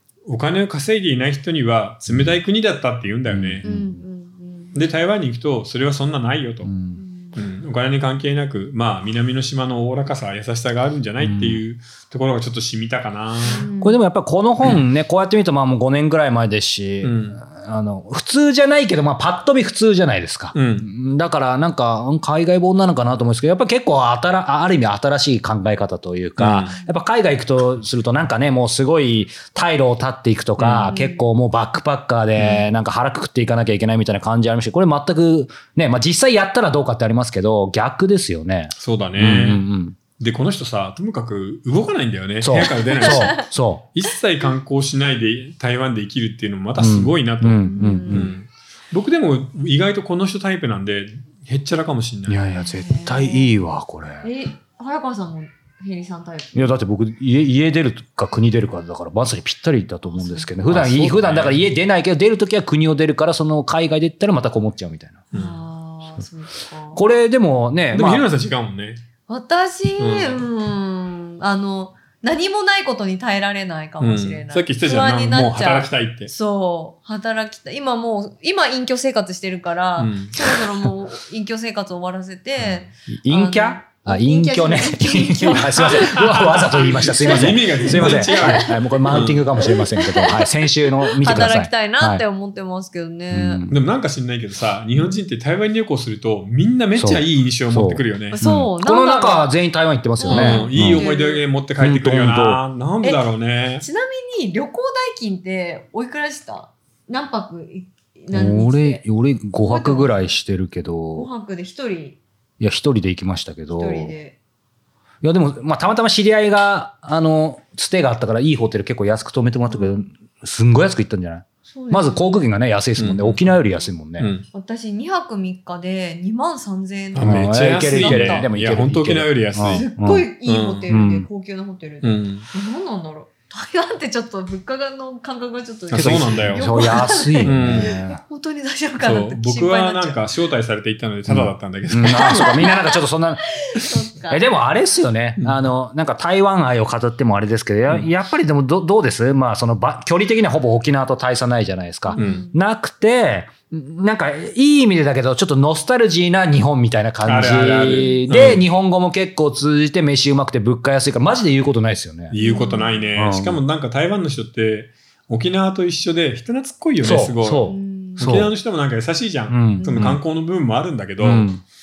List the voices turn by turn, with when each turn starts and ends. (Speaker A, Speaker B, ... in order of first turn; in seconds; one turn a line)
Speaker A: 0.3-3.6
Speaker B: 2.1-2.4
Speaker B: 3.3-4.0
Speaker C: 3.6-4.8
Speaker A: 4.7-6.7
Speaker B: 6.6-7.0
Speaker C: 7.0-7.4
Speaker A: 7.3-13.7
Speaker B: 11.2-11.6
Speaker C: 13.4-14.0
Speaker B: 13.8-40.0
Speaker A: 17.0-17.4
Speaker A: 20.5-20.9
Speaker A: 26.4-26.7
Speaker A: 30.6-30.9
Speaker C: 30.8-31.3
Speaker A: 38.8-39.7
Speaker A: 40.2-43.4
Speaker B: 42.4-43.9
Speaker C: 43.0-43.4
Speaker A: 43.9-52.5
Speaker B: 46.8-48.3
Speaker C: 47.6-48.3
Speaker B: 52.3-54.3
Speaker C: 52.6-53.7
Speaker C: 54.2-56.8
Speaker B: 56.5-65.2
Speaker C: 60.1-60.5
Speaker A: 60.6-61.7
Speaker A: 65.3-65.6
Speaker C: 65.3-67.0
Speaker B: 67.0-68.3
Speaker A: 67.9-69.0
Speaker C: 69.3-93.7
Speaker A: 70.0-70.5
Speaker A: 74.0-76.3
Speaker A: 80.0-80.9
Speaker A: 82.6-82.9
Speaker B: 83.1-92.2
Speaker A: 86.0-89.5
Speaker B: 93.3-93.8
Speaker A: 93.7-98.5
Speaker B: 97.0-101.1
Speaker C: 98.3-99.5
Speaker C: 100.2-101.4
Speaker A: 100.2-103.9
Speaker B: 101.8-102.6
Speaker C: 103.8-109.0
Speaker B: 108.3-111.3
Speaker C: 109.5-110.3
Speaker C: 111.2-112.2
Speaker B: 112.6-114.2
Speaker C: 113.7-114.4
Speaker B: 115.2-124.3
Speaker C: 119.7-120.1
Speaker C: 121.7-122.5
Speaker A: 123.0-123.6
Speaker A: 124.2-124.5
Speaker C: 124.5-128.5
Speaker A: 127.1-129.9
Speaker B: 127.2-130.3
Speaker C: 129.7-140.3
Speaker A: 130.5-130.9
Speaker B: 130.9-131.3
Speaker A: 132.0-132.5
Speaker A: 135.9-136.8
Speaker B: 135.9-138.2
Speaker A: 137.4-137.9
Speaker A: 139.0-142.7
Speaker B: 141.3-143.5
Speaker C: 142.1-143.0
Speaker C: 143.7-144.6
Speaker B: 144.3-162.4
Speaker A: 145.4-145.7
Speaker C: 152.1-152.6
Speaker A: 152.2-152.4
Speaker A: 157.2-158.7
Speaker C: 157.9-158.3
Speaker A: 162.3-171.5
Speaker C: 162.4-163.1
Speaker B: 163.2-163.6
Speaker B: 167.0-168.6
Speaker C: 167.6-168.5
Speaker B: 169.5-170.2
Speaker C: 169.8-170.2
Speaker B: 171.2-171.6